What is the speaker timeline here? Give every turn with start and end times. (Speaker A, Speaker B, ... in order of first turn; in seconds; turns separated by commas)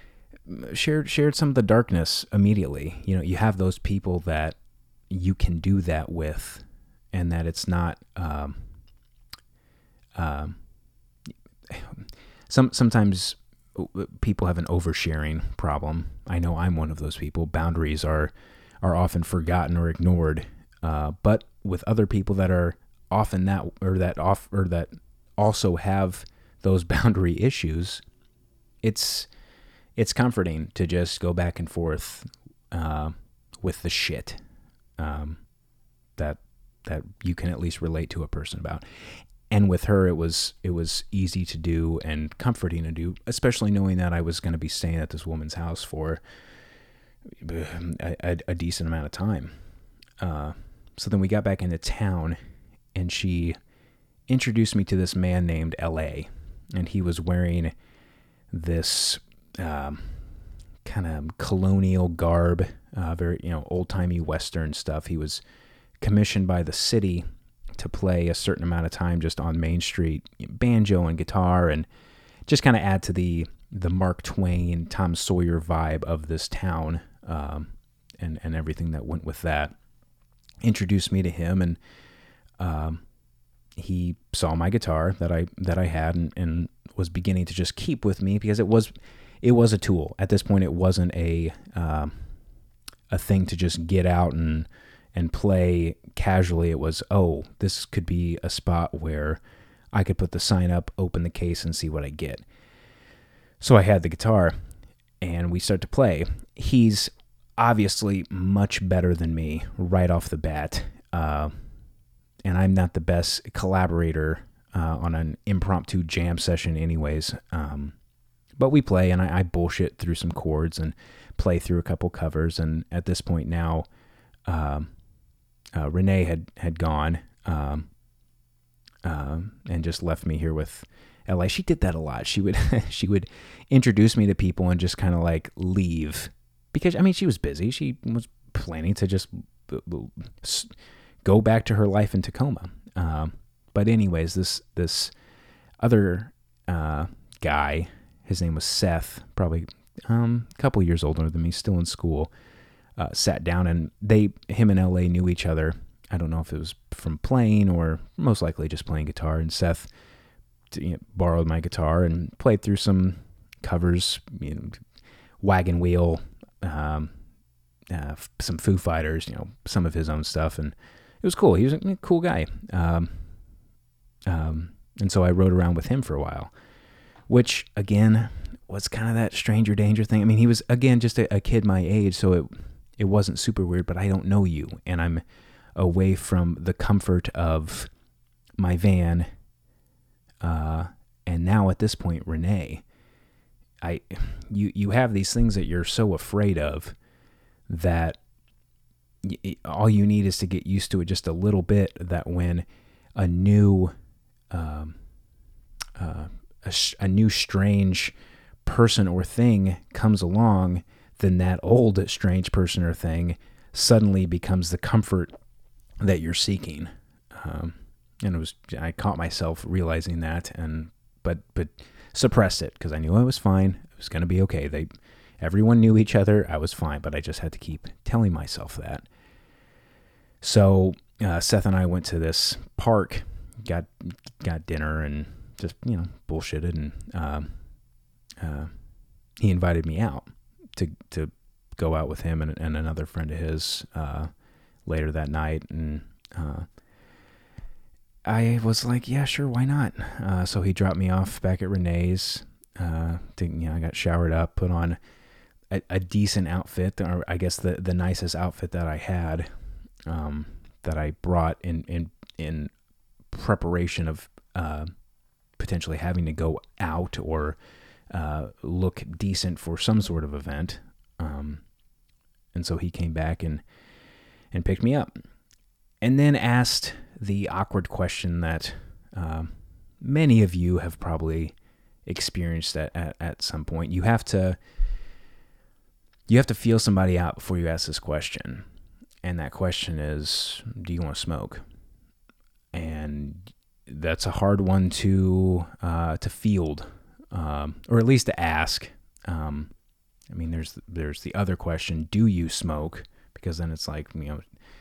Speaker A: 0.5-4.6, Speaker A: 5.1-8.6, Speaker A: 10.2-10.6, Speaker A: 11.7-28.0, Speaker A: 28.8-29.3, Speaker A: 30.0-34.4, Speaker A: 35.0-35.4, Speaker A: 36.2-38.9, Speaker A: 39.5-46.2, Speaker A: 47.4-49.5, Speaker A: 50.2-52.4, Speaker A: 53.0-53.6, Speaker A: 54.3-57.7, Speaker A: 58.5-60.2, Speaker A: 60.8-65.4, Speaker A: 66.0-71.9, Speaker A: 72.5-79.7, Speaker A: 80.6-81.8, Speaker A: 82.6-83.0, Speaker A: 83.8-88.9, Speaker A: 89.4-92.2, Speaker A: 93.1-99.4, Speaker A: 99.9-102.5, Speaker A: 103.6-104.5, Speaker A: 105.2-111.5, Speaker A: 112.5-118.0, Speaker A: 118.6-123.9, Speaker A: 124.5-124.9, Speaker A: 125.8-127.9, Speaker A: 129.0-140.7, Speaker A: 141.2-145.1, Speaker A: 145.8-152.3, Speaker A: 153.0-159.9, Speaker A: 160.7-164.8, Speaker A: 165.4-167.1, Speaker A: 167.9-173.2, Speaker A: 174.3-176.5, Speaker A: 177.3-185.2, Speaker A: 185.8-187.9, Speaker A: 188.6-189.3, Speaker A: 190.4-192.8, Speaker A: 193.8-196.9, Speaker A: 197.7-198.2, Speaker A: 199.2-202.7, Speaker A: 203.2-203.9, Speaker A: 204.5-205.0, Speaker A: 206.0-215.3, Speaker A: 216.0-224.9, Speaker A: 225.4-229.1, Speaker A: 230.4-237.5, Speaker A: 238.4-238.7, Speaker A: 239.4-244.3, Speaker A: 244.9-246.7, Speaker A: 248.3-255.0, Speaker A: 255.7-259.5, Speaker A: 260.1-262.7, Speaker A: 263.3-264.9, Speaker A: 265.6-267.6, Speaker A: 268.1-271.6, Speaker A: 272.5-273.6, Speaker A: 274.5-275.2, Speaker A: 276.0-281.6, Speaker A: 282.1-284.6, Speaker A: 286.3-288.6, Speaker A: 289.2-291.6, Speaker A: 292.7-299.7, Speaker A: 300.3-304.4